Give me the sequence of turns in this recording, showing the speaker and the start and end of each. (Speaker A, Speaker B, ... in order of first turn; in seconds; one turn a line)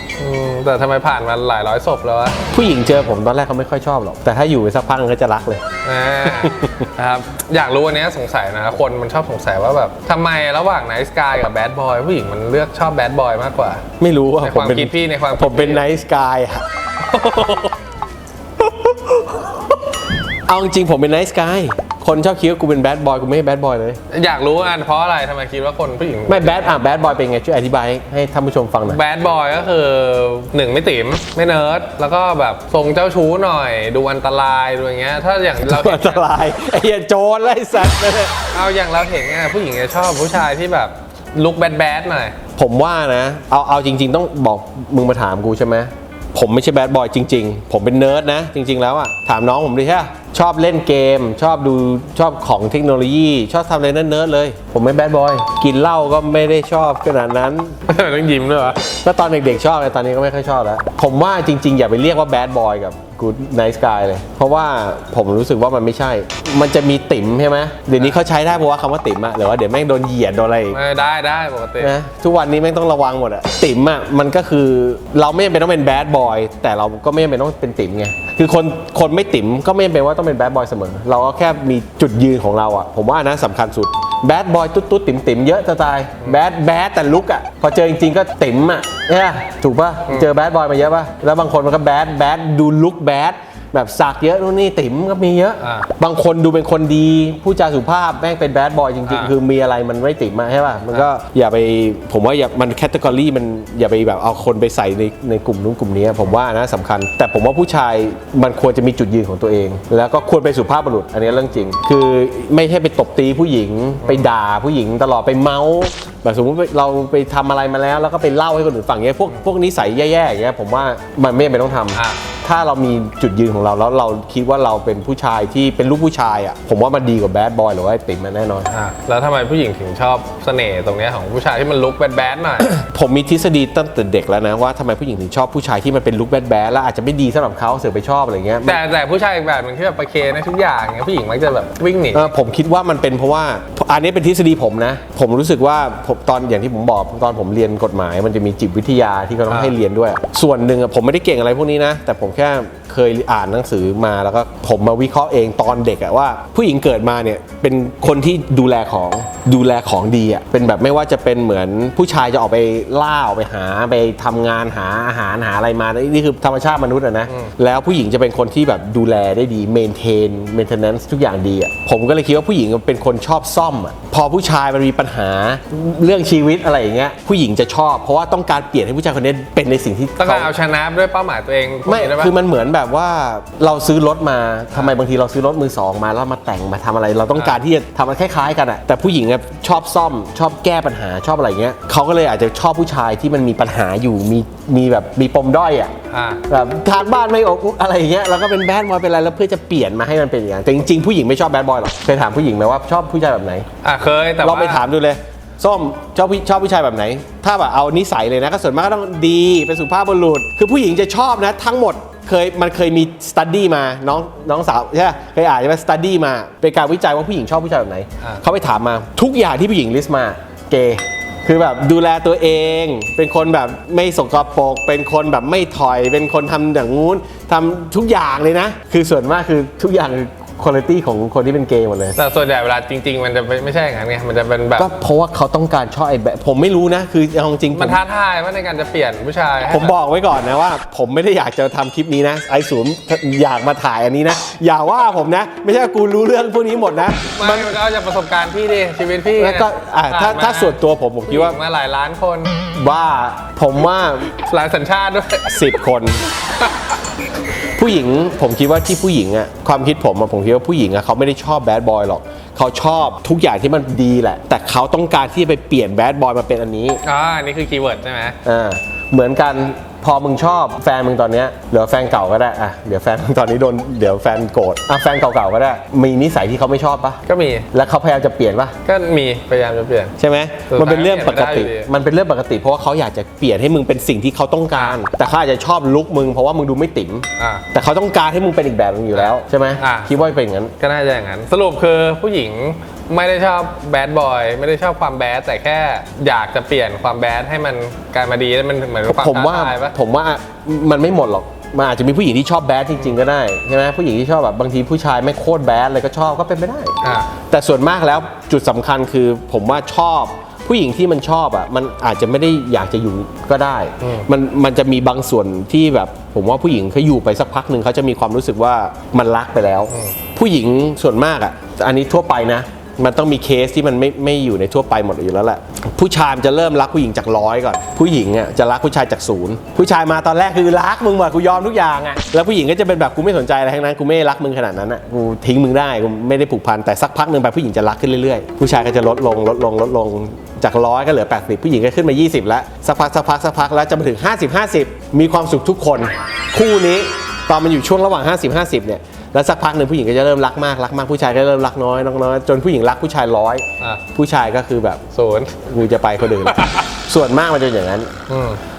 Speaker A: 0.2-2.4
Speaker B: 2.5-5.6
Speaker A: 5.8-13.9
Speaker B: 6.3-6.7
Speaker B: 14.0-16.6
Speaker A: 14.4-15.8
Speaker A: 17.1-17.7
Speaker B: 20.5-24.0
Speaker A: 24.1-26.7
Speaker B: 26.3-29.0
Speaker A: 28.9-36.3
Speaker B: 35.6-38.4
Speaker A: 38.5-42.4
Speaker B: 42.6-57.8
Speaker A: 57.9-58.9
Speaker B: 59.0-70.8
Speaker A: 70.7-71.9
Speaker B: 71.8-128.7
Speaker A: 95.6-95.9
Speaker A: 99.1-99.3
Speaker A: 114.0-114.3
Speaker A: 121.9-122.3
Speaker A: 128.7-132.7
Speaker B: 132.6-138.8
Speaker A: 138.6-142.3
Speaker B: 142.1-180.5
Speaker A: 149.5-149.8
Speaker A: 167.3-167.5
Speaker A: 180.2-182.3
Speaker B: 181.9-195.9
Speaker A: 187.3-187.6
Speaker A: 196.1-196.4
Speaker B: 196.5-203.7
Speaker A: 203.8-204.8
Speaker B: 204.4-232.2
Speaker A: 232.2-234.9
Speaker B: 234.8-238.0
Speaker A: 237.7-239.9
Speaker B: 239.7-247.8
Speaker A: 247.3-252.6
Speaker B: 249.4-251.6
Speaker B: 252.8-254.3
Speaker A: 254.3-255.8
Speaker B: 255.5-256.2
Speaker A: 256.6-257.0
Speaker B: 257.6-267.0
Speaker A: 267.0-268.4
Speaker B: 268.4-277.2
Speaker A: 277.3-277.7
Speaker B: 277.7-278.8
Speaker A: 278.8-280.1
Speaker B: 280.2-290.7
Speaker A: 280.7-281.9
Speaker A: 284.8-285.0
Speaker A: 287.4-287.7
Speaker A: 289.1-290.1
Speaker A: 290.8-299.9
Speaker B: 299.1-355.0
Speaker A: 307.0-307.3
Speaker A: 314.0-314.3
Speaker A: 319.9-320.2
Speaker A: 355.1-355.6
Speaker B: 355.6-358.1
Speaker A: 356.4-356.9
Speaker A: 358.3-358.6